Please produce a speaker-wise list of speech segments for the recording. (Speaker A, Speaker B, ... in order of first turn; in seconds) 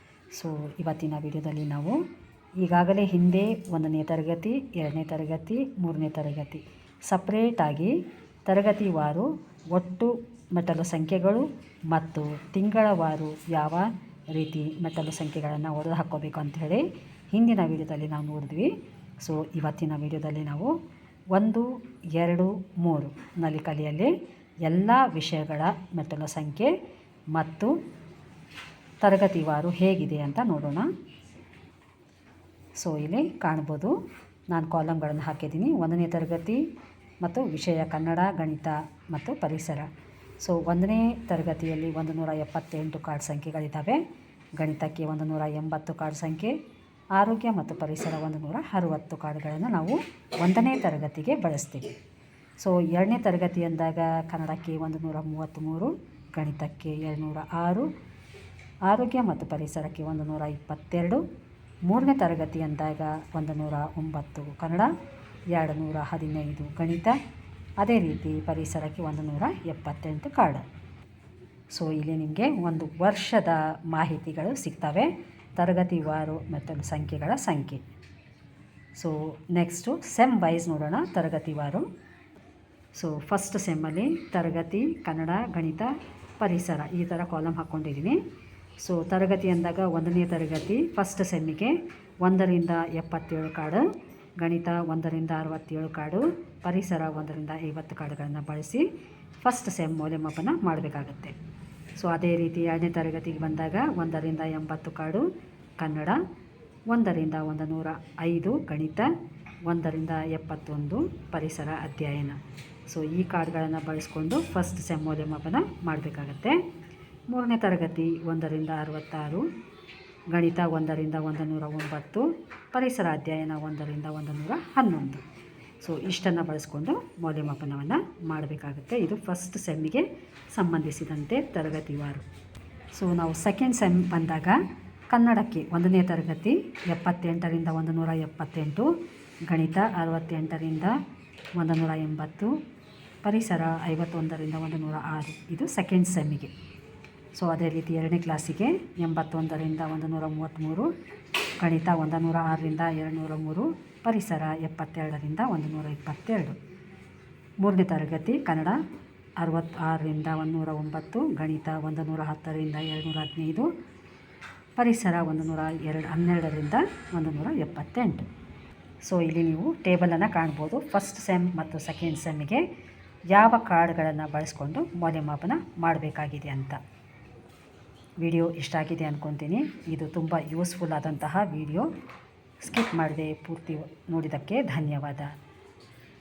Speaker A: 0.3-2.0, 2.6-7.9, 8.5-20.7, 21.3-24.1, 24.6-26.7, 27.3-27.7, 29.0-30.9, 32.8-33.9, 34.5-36.6, 37.2-39.9, 40.4-44.0, 44.6-46.5, 47.1-51.9, 52.6-57.9, 58.9-61.2, 61.9-64.9, 65.5-67.2, 67.8-70.6, 71.7-77.8, 79.0-81.8, 83.0-88.2, 88.8-93.9, 94.4-98.8, 99.4-101.3, 102.0-105.2, 105.8-106.2, 106.9-109.1, 109.7-112.4, 112.9-116.6, 117.3-119.4, 120.3-125.2, 125.8-132.2, 132.9-134.6, 135.1-138.9, 139.5-140.9, 141.6-142.5, 143.2-146.5, 147.3-150.9, 151.6-156.6, 157.6-158.8, 159.4-163.7, 164.8-168.2, 169.0-172.6, 173.3-176.8, 178.2-181.9, 182.6-185.3